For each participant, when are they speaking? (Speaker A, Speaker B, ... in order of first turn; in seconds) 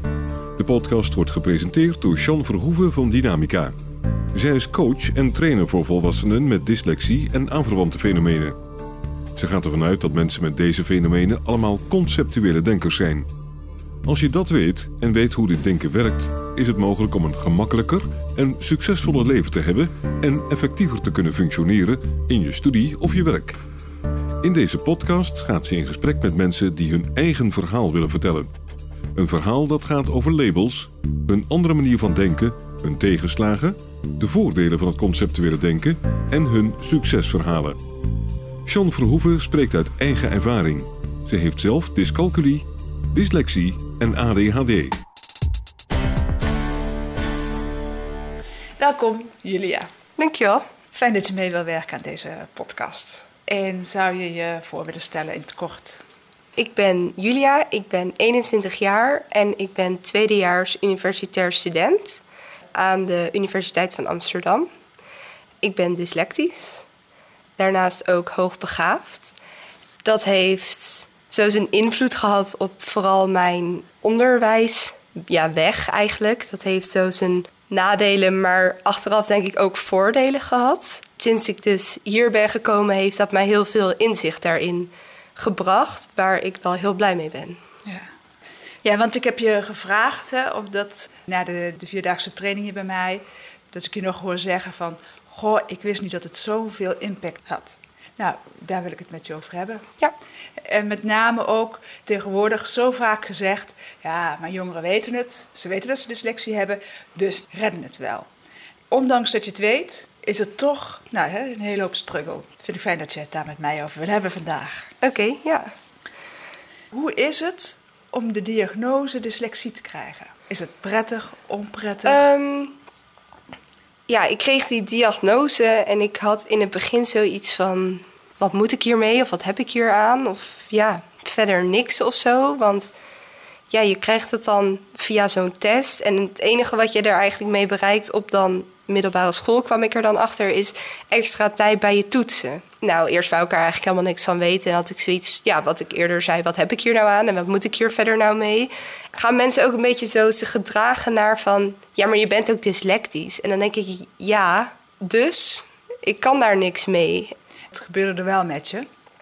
Speaker A: 0.6-3.7, 4.3-8.6, 9.3-13.3, 14.0-23.6, 24.4-28.5, 29.1-37.8, 38.6-45.0
Speaker B: 48.8-49.9, 50.9-56.0, 88.8-99.8, 100.6-108.3, 108.9-114.9, 116.9-122.2, 157.7-158.9
Speaker C: 50.2-50.6, 56.6-62.2, 62.7-64.7, 65.6-66.8, 67.6-69.3, 70.0-87.6, 115.0-115.7, 122.0-122.8, 124.1-132.9, 133.7-157.3